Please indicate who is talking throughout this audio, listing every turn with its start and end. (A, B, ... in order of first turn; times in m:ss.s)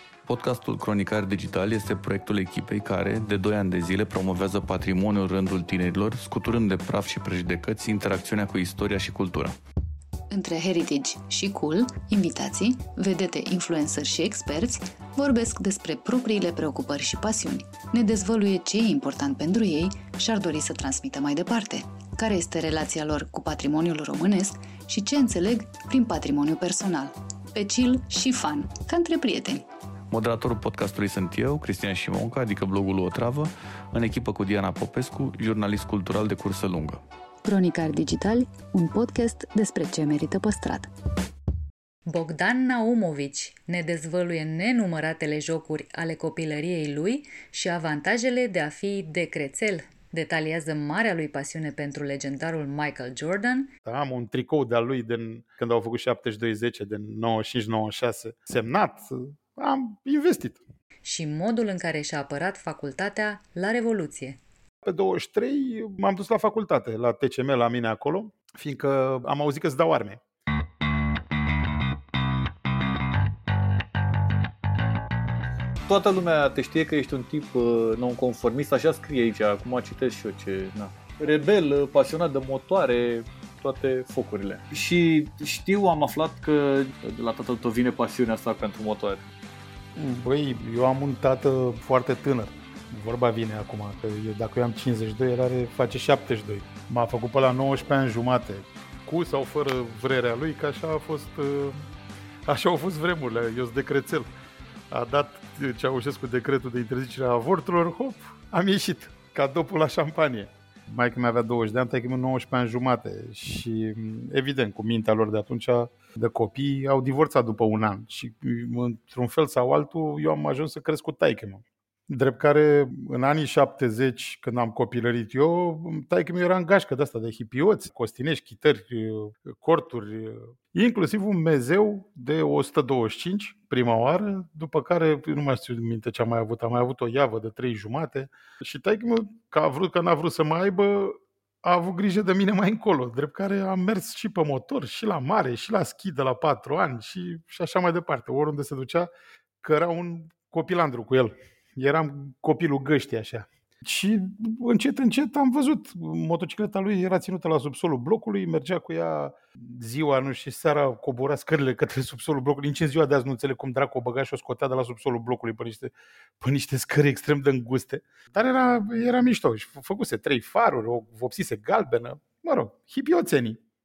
0:00.3-0:09.6 A
0:10.3-0:29.7 B
0:30.1-0:37.0 A
0:37.4-0:40.9 B
0:42.1-0:53.7 B
0:53.8-1:00.6 C
1:01.0-1:04.4 B
1:04.8-1:10.2 C
1:15.9-1:29.2 D
1:30.0-1:41.8 C
1:42.5-1:44.3 C
1:44.9-2:29.1 C
2:29.6-2:53.6 C